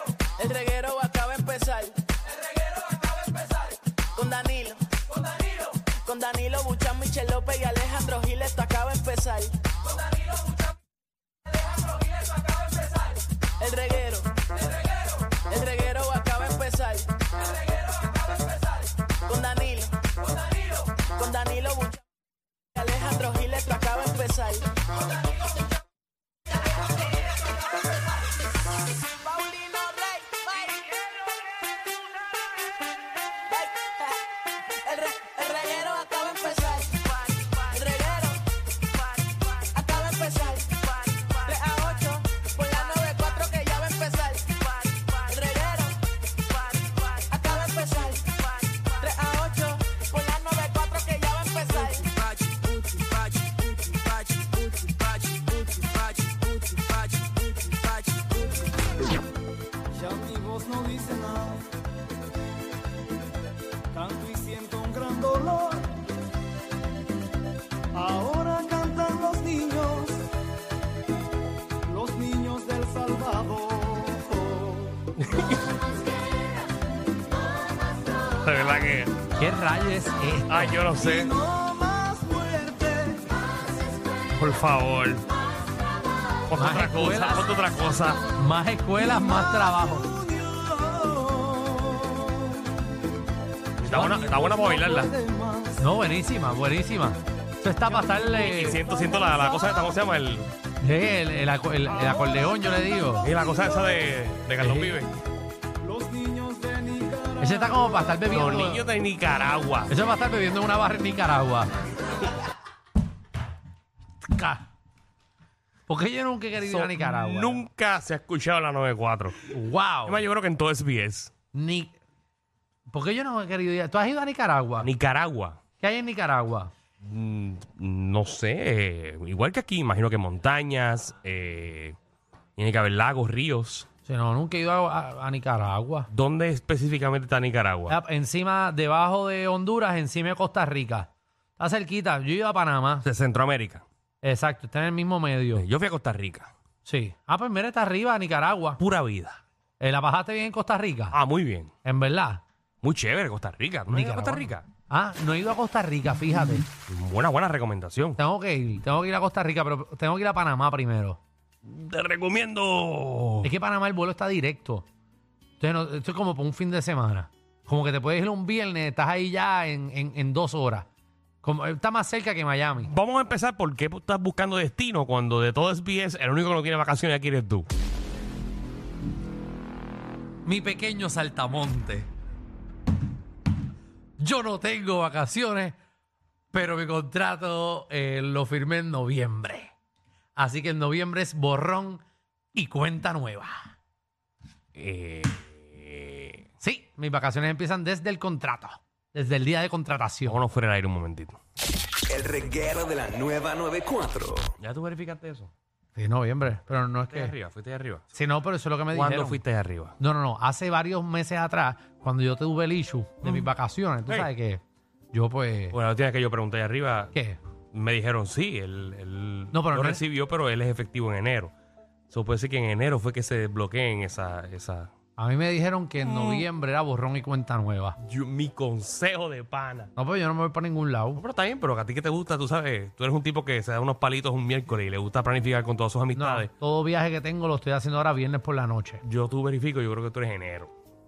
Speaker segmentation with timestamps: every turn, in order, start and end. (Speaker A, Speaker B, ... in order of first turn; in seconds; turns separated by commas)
Speaker A: 0.4-2.0, Speaker A: 3.2-4.8, Speaker A: 6.0-9.6, Speaker A: 13.6-14.7, Speaker A: 15.5-17.1, Speaker A: 19.2-22.0, Speaker A: 22.8-24.7, Speaker A: 29.2-31.0, Speaker A: 33.5-34.2, Speaker A: 34.8-38.4, Speaker A: 39.3-46.0, Speaker A: 46.5-52.2, Speaker B: 51.7-53.9, Speaker A: 54.1-56.0, Speaker B: 54.6-54.9, Speaker B: 55.5-56.8, Speaker A: 56.8-58.2, Speaker B: 57.4-57.7, Speaker B: 58.2-58.6, Speaker B: 59.9-61.6, Speaker B: 63.9-65.9, Speaker B: 67.9-70.2, Speaker B: 71.8-75.0, Speaker C: 75.2-75.6, Speaker C: 78.4-79.2, Speaker D: 79.4-80.8, Speaker C: 80.5-81.4, Speaker B: 81.0-83.3, Speaker C: 84.4-85.2, Speaker C: 86.5-88.2, Speaker D: 86.6-87.5, Speaker D: 88.3-90.2, Speaker B: 89.0-92.7, Speaker C: 93.8-95.1, Speaker D: 93.9-94.3, Speaker B: 94.0-95.8, Speaker D: 95.8-98.8, Speaker B: 97.9-99.6, Speaker C: 98.4-100.5, Speaker D: 100.8-103.3, Speaker C: 102.0-102.2, Speaker C: 103.2-105.1, Speaker D: 104.6-105.0, Speaker B: 105.8-108.1, Speaker D: 107.4-108.9, Speaker C: 108.3-109.9, Speaker D: 109.9-111.7, Speaker D: 114.3-114.6, Speaker D: 115.9-117.6, Speaker C: 116.6-119.5, Speaker D: 119.5-120.2, Speaker C: 120.1-121.3, Speaker D: 121.5-121.9, Speaker D: 122.9-124.9, Speaker C: 124.8-125.6, Speaker D: 125.8-126.7, Speaker C: 127.0-132.0, Speaker C: 132.6-133.9, Speaker D: 134.1-136.1, Speaker C: 136.1-138.0, Speaker D: 137.9-143.1, Speaker C: 143.0-143.8, Speaker D: 144.2-145.7, Speaker C: 145.5-146.5, Speaker D: 146.8-148.8, Speaker C: 148.8-149.4, Speaker D: 149.8-151.2, Speaker C: 151.1-151.7, Speaker D: 151.8-152.4, Speaker C: 152.8-154.7, Speaker D: 153.9-156.7, Speaker C: 156.9-158.2, Speaker D: 158.2-161.2, Speaker C: 161.7-163.5, Speaker D: 163.4-164.9, Speaker D: 165.6-170.9, Speaker D: 171.4-172.9, Speaker C: 172.8-177.7, Speaker D: 180.4-182.1, Speaker D: 184.2-185.8, Speaker D: 186.5-189.7, Speaker D: 190.4-192.0, Speaker D: 192.5-193.7, Speaker C: 194.8-196.4, Speaker D: 196.6-200.4, Speaker C: 200.3-201.4, Speaker E: 202.1-204.5, Speaker C: 204.6-205.5, Speaker D: 206.0-207.3, Speaker C: 207.1-208.0, Speaker D: 208.1-209.4, Speaker C: 208.9-209.9, Speaker D: 210.0-214.6, Speaker C: 213.2-213.5, Speaker D: 215.1-215.8, Speaker C: 215.7-217.1, Speaker D: 217.1-217.4, Speaker C: 217.7-221.5, Speaker D: 219.5-220.0, Speaker C: 222.1-224.9, Speaker D: 225.2-228.0, Speaker C: 226.1-226.4, Speaker C: 228.0-229.9, Speaker D: 230.0-231.2, Speaker C: 231.2-236.5, Speaker D: 236.2-239.0, Speaker C: 239.0-240.7